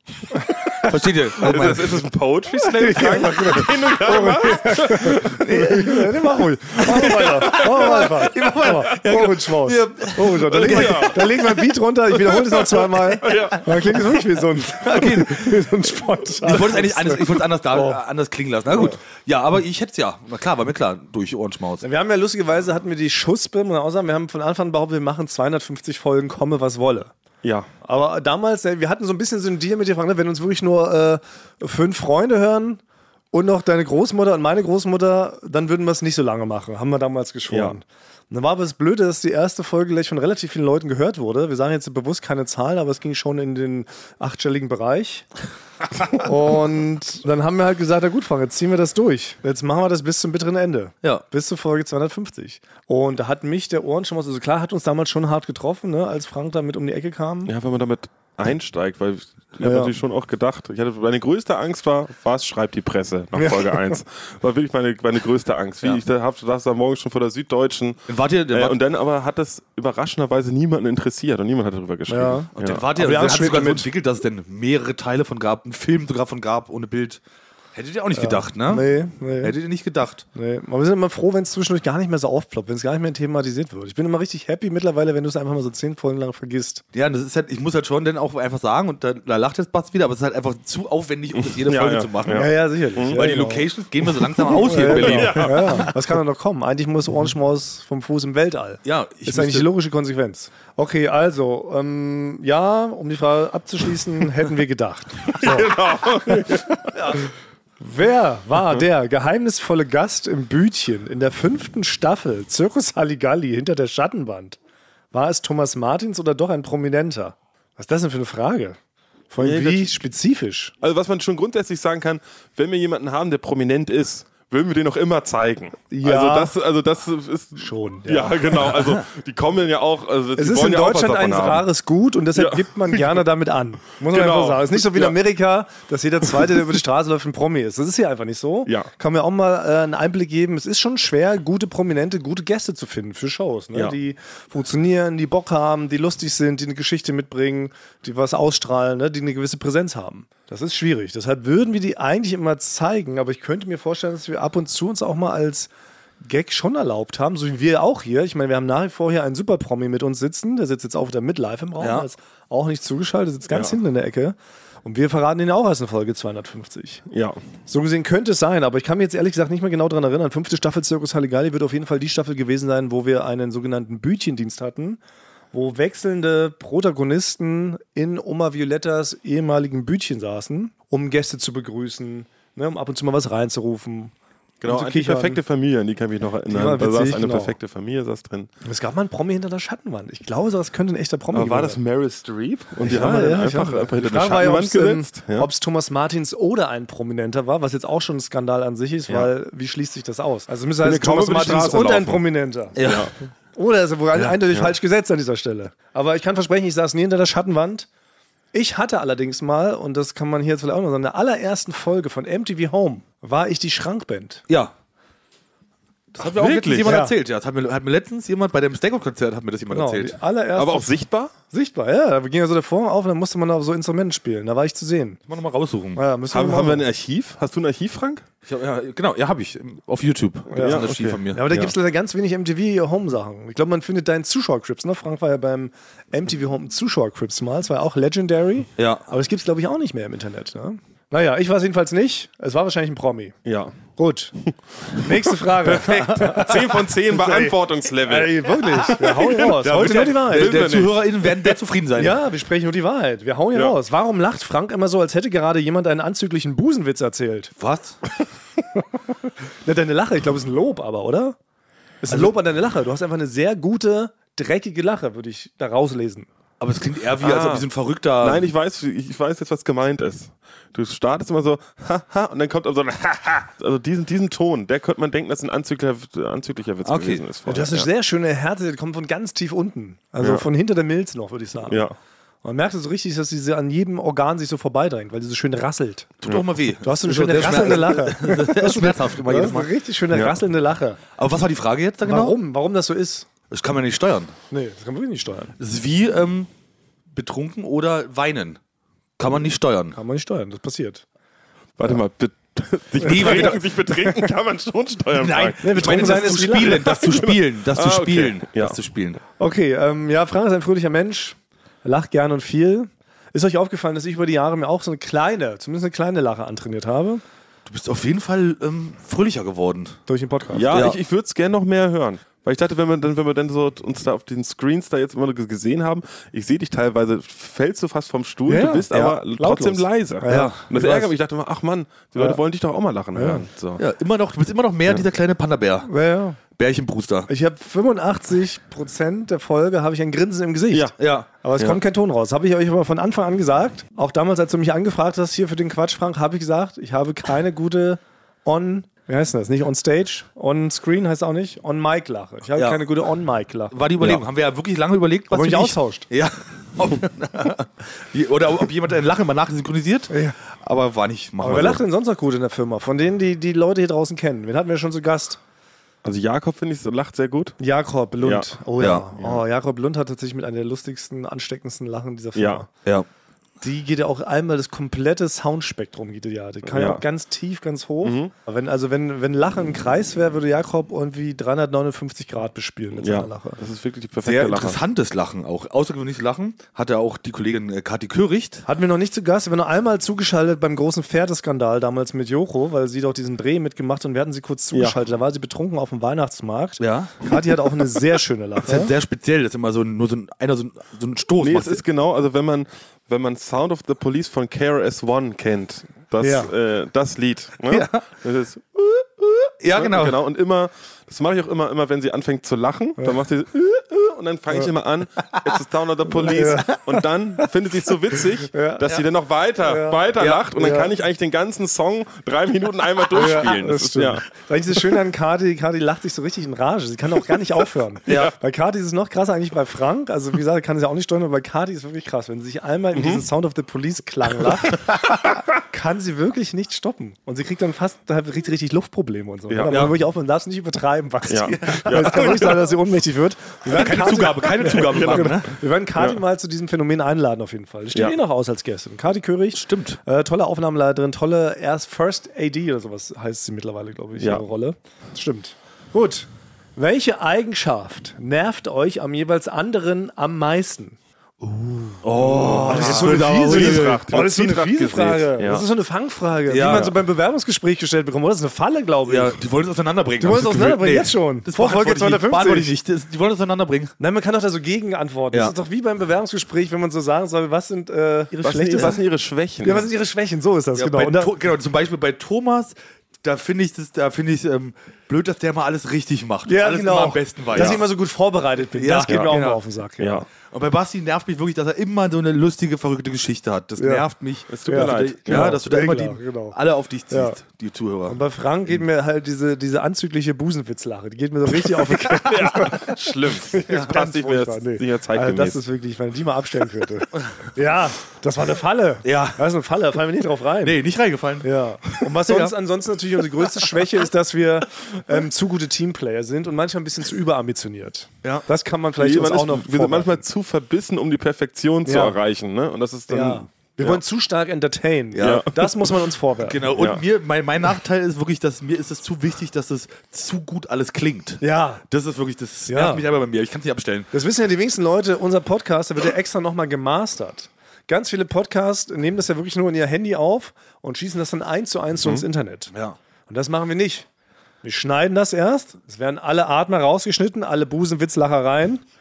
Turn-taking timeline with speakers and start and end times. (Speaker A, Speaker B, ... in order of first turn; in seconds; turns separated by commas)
Speaker A: 0.7-2.0, Speaker B: 1.4-5.5, Speaker C: 1.4-1.7, Speaker C: 2.6-18.0, Speaker A: 5.3-6.2, Speaker A: 6.8-11.5, Speaker B: 7.0-7.9, Speaker B: 10.5-11.4, Speaker B: 12.9-14.2, Speaker A: 14.8-15.7, Speaker A: 16.4-21.8, Speaker C: 21.8-27.1, Speaker B: 27.4-27.7, Speaker C: 27.8-45.3, Speaker B: 37.5-37.8, Speaker C: 46.1-57.5, Speaker B: 57.5-72.8, Speaker C: 59.6-59.9, Speaker C: 63.3-63.9, Speaker A: 68.1-68.8, Speaker C: 72.1-73.9, Speaker A: 72.5-77.2, Speaker A: 77.7-78.9, Speaker C: 78.1-79.5, Speaker A: 79.4-80.2, Speaker C: 80.3-86.8, Speaker A: 86.9-95.9, Speaker B: 91.4-93.3, Speaker C: 92.3-93.7, Speaker C: 94.4-105.8, Speaker B: 94.7-95.9, Speaker A: 98.8-99.7, Speaker B: 105.4-106.9, Speaker C: 106.9-107.3, Speaker C: 107.8-114.6, Speaker C: 115.1-118.8, Speaker C: 119.3-120.7, Speaker B: 119.4-120.0, Speaker B: 120.8-131.6, Speaker C: 125.9-126.5, Speaker C: 127.6-128.8, Speaker C: 130.4-155.7, Speaker B: 132.3-133.2, Speaker B: 134.1-135.2, Speaker C: 156.2-167.0, Speaker A: 161.8-162.1, Speaker B: 167.1-167.4, Speaker C: 167.7-175.0, Speaker C: 175.5-184.1, Speaker B: 184.6-188.5, Speaker C: 184.7-185.4, Speaker C: 186.5-187.6, Speaker C: 188.6-191.8, Speaker B: 191.3-195.5, Speaker C: 192.8-202.8, Speaker B: 200.8-202.2, Speaker A: 202.8-203.1, Speaker B: 202.8-203.1, Speaker C: 203.6-207.9, Speaker C: 208.5-214.4, Speaker A: 216.1-220.2, Speaker B: 216.2-217.0, Speaker C: 216.8-217.1, Speaker C: 219.7-225.2, Speaker B: 220.6-221.3, Speaker A: 225.3-226.0, Speaker C: 225.9-226.8, Speaker B: 226.3-228.2, Speaker A: 228.4-231.6, Speaker C: 230.5-243.4, Speaker B: 230.6-231.7, Speaker A: 238.8-239.1, Speaker B: 243.4-243.8, Speaker C: 243.9-244.3, Speaker C: 244.9-250.7, Speaker B: 245.1-251.1, Speaker A: 248.9-252.2, Speaker C: 251.9-257.5, Speaker A: 257.6-258.0, Speaker C: 259.6-261.4, Speaker C: 262.0-266.3, Speaker A: 266.6-268.4, Speaker B: 267.2-267.7, Speaker B: 268.2-277.9, Speaker A: 276.8-277.2, Speaker C: 277.5-281.9, Speaker B: 281.7-281.9, Speaker C: 282.4-286.1, Speaker A: 286.2-289.7, Speaker C: 286.8-291.0, Speaker A: 291.2-292.4, Speaker C: 292.0-293.3, Speaker A: 293.5-294.3, Speaker C: 294.5-295.6, Speaker A: 295.6-296.5, Speaker A: 297.1-298.6, Speaker A: 299.2-300.0, Speaker C: 299.9-301.0, Speaker B: 301.8-308.8, Speaker A: 303.0-303.6, Speaker C: 303.0-304.3, Speaker A: 305.1-309.2, Speaker C: 305.6-307.0, Speaker C: 309.4-317.2, Speaker A: 317.7-320.0, Speaker C: 320.1-320.7, Speaker B: 320.5-333.8, Speaker A: 320.7-321.0, Speaker C: 328.4-331.0, Speaker A: 330.3-331.1, Speaker C: 333.1-333.4, Speaker A: 333.8-335.9, Speaker C: 335.9-336.4, Speaker A: 336.6-337.3, Speaker C: 337.3-354.2, Speaker A: 341.0-341.7, Speaker A: 352.6-352.9, Speaker A: 353.7-361.8, Speaker C: 355.3-356.1, Speaker C: 360.1-360.4, Speaker C: 361.4-365.4, Speaker B: 366.0-367.6, Speaker C: 367.6-372.7, Speaker B: 368.2-368.5, Speaker A: 368.8-369.1, Speaker B: 369.2-369.4, Speaker B: 372.3-372.6, Speaker C: 373.6-383.6, Speaker B: 376.6-377.0, Speaker B: 378.0-378.3, Speaker B: 383.0-384.8, Speaker A: 384.2-388.6, Speaker C: 388.6-398.9, Speaker B: 394.7-395.0, Speaker A: 396.8-398.0, Speaker A: 398.6-401.8, Speaker B: 401.4-424.2, Speaker C: 406.2-406.5, Speaker A: 407.7-408.1, Speaker A: 409.6-410.2, Speaker C: 416.1-417.0, Speaker C: 418.4-418.9, Speaker C: 419.6-420.9, Speaker A: 420.2-420.4, Speaker C: 423.1-469.4, Speaker B: 428.1-428.3, Speaker B: 432.9-433.2, Speaker B: 439.5-439.8, Speaker A: 439.7-440.0, Speaker B: 441.3-442.6, Speaker A: 441.7-442.5, Speaker A: 443.7-445.6, Speaker A: 449.5-450.0, Speaker B: 454.2-454.4, Speaker A: 462.0-464.0, Speaker B: 462.2-465.6, Speaker A: 466.5-466.9, Speaker B: 466.6-466.9, Speaker A: 469.1-473.9, Speaker C: 470.2-472.7, Speaker C: 474.0-479.0, Speaker B: 478.4-479.9, Speaker C: 479.6-481.3, Speaker A: 480.8-487.9, Speaker C: 486.4-490.2, Speaker B: 487.6-487.8, Speaker A: 488.7-489.6, Speaker B: 489.1-489.3, Speaker B: 490.0-490.2, Speaker A: 490.5-498.2, Speaker C: 493.8-494.0, Speaker B: 494.5-495.6, Speaker C: 494.6-496.6, Speaker C: 497.1-497.4, Speaker C: 498.1-510.8, Speaker B: 502.2-505.6, Speaker A: 509.0-509.4, Speaker A: 510.6-512.5, Speaker C: 511.4-520.2, Speaker B: 519.0-524.0, Speaker C: 521.8-522.2, Speaker C: 523.1-526.7, Speaker A: 525.1-525.4, Speaker B: 525.2-525.8, Speaker A: 526.4-534.1, Speaker B: 526.7-527.0, Speaker C: 531.4-531.8, Speaker C: 532.7-533.0, Speaker C: 534.1-542.7, Speaker C: 543.3-544.1, Speaker C: 544.6-548.8